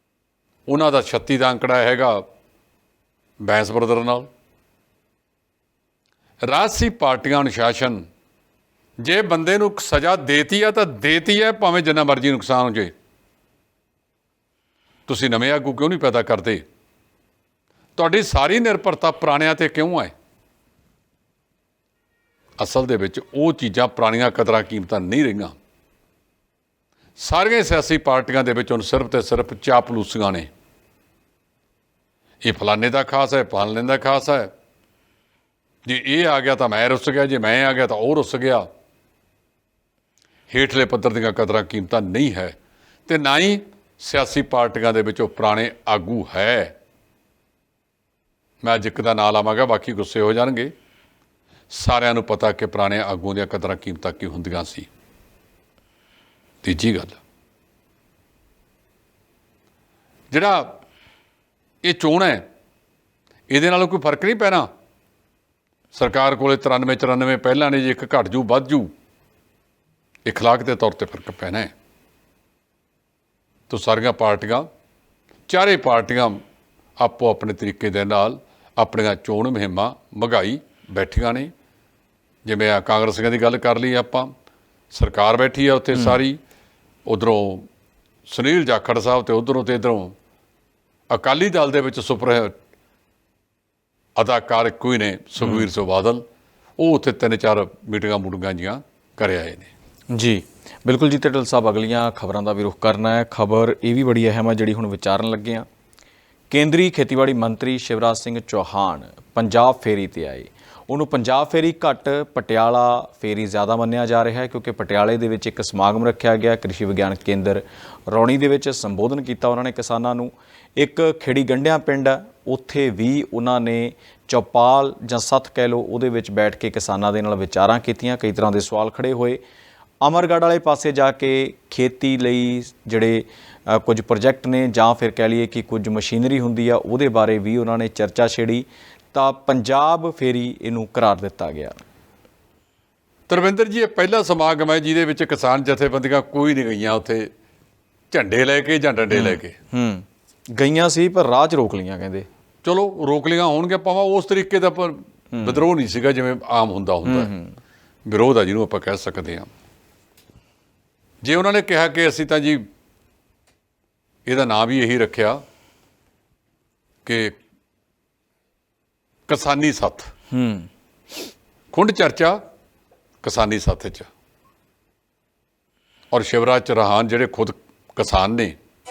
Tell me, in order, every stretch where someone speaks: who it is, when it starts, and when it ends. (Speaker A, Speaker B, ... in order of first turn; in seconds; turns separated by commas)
Speaker A: 0.7-2.2, Speaker A: 3.4-4.3, Speaker A: 6.4-8.1, Speaker A: 9.0-12.9, Speaker A: 15.1-16.6, Speaker A: 18.0-20.1, Speaker A: 22.6-25.6, Speaker A: 27.2-30.5, Speaker A: 32.4-34.5, Speaker A: 35.9-38.7, Speaker A: 40.5-46.8, Speaker A: 48.6-50.7, Speaker A: 51.7-54.9, Speaker A: 56.6-57.2, Speaker A: 60.3-60.8, Speaker A: 61.8-62.4, Speaker A: 63.5-64.7, Speaker A: 65.9-68.9, Speaker A: 70.2-71.7, Speaker A: 73.7-74.7, Speaker A: 75.5-76.4, Speaker A: 77.0-81.5, Speaker A: 82.5-84.3, Speaker A: 84.9-86.4, Speaker B: 85.9-86.2, Speaker A: 87.1-87.7, Speaker A: 88.3-90.2, Speaker A: 91.1-92.5, Speaker A: 94.2-96.2, Speaker B: 95.4-95.7, Speaker A: 96.8-99.7, Speaker B: 100.1-105.7, Speaker B: 106.5-129.4, Speaker B: 130.0-141.8, Speaker A: 143.3-147.3, Speaker A: 148.1-149.6, Speaker B: 149.1-150.1, Speaker B: 150.6-152.3, Speaker A: 152.6-157.3, Speaker B: 155.3-155.6, Speaker B: 157.1-157.6, Speaker A: 158.1-159.5, Speaker A: 161.2-162.7, Speaker A: 164.3-165.4, Speaker A: 167.1-167.4, Speaker A: 169.3-170.1, Speaker B: 170.3-170.7, Speaker A: 171.7-172.4, Speaker A: 173.2-174.1, Speaker A: 176.1-178.6